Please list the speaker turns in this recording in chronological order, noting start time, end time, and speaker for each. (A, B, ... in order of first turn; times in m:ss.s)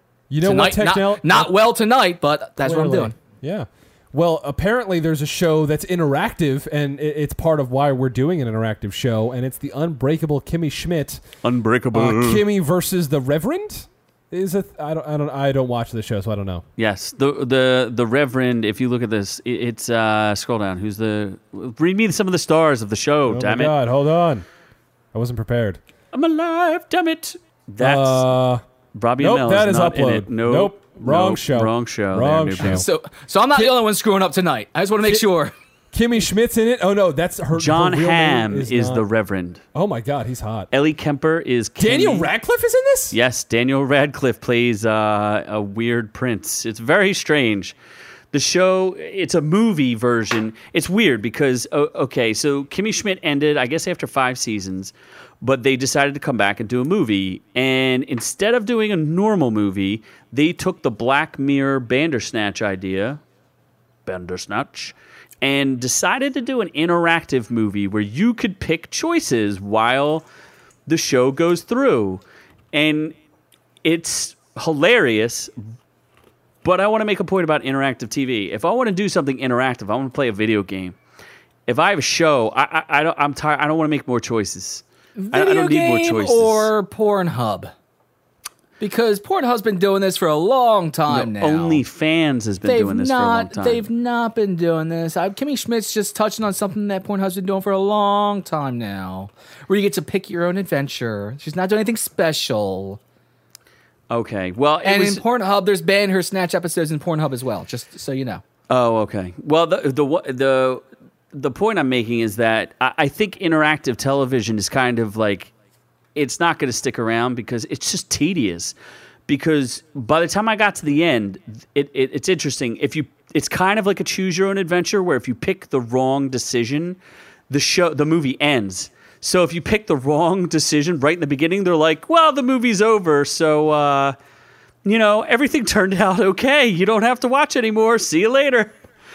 0:00.3-0:01.6 A
0:00.4-0:03.1 B
0:02.6-0:11.2 A
0:11.4-0:12.4 C
0:11.9-0:16.6 A
0:16.8-0:23.7 C
0:23.3-0:24.5 A
0:25.1-0:25.8 A
0:26.1-0:28.3 C
0:27.8-0:28.6 A
0:28.9-0:32.9 C
0:29.2-0:32.9 A
0:32.6-0:35.5 B
0:35.9-0:39.0 A
0:37.5-0:39.6 C
0:39.7-0:40.7 A
0:40.7-0:42.3 C
0:41.8-0:43.2 A
0:43.1-0:47.8 C
0:48.3-1:03.2 C
1:04.1-1:10.2 C
1:10.9-1:12.2 C
1:12.7-1:13.2 C
1:13.8-1:15.5 C
1:16.6-1:21.0 C
1:21.7-1:26.7 C
1:25.2-1:27.7 B
1:28.8-1:31.8 B
1:31.1-1:33.9 C
1:32.6-1:43.0 B
1:44.1-1:45.2 C
1:44.8-1:48.4 B
1:48.7-1:55.5 C
1:56.2-1:58.8 C
1:59.3-2:07.0 C
2:07.5-2:14.2 C
2:14.8-2:18.8 C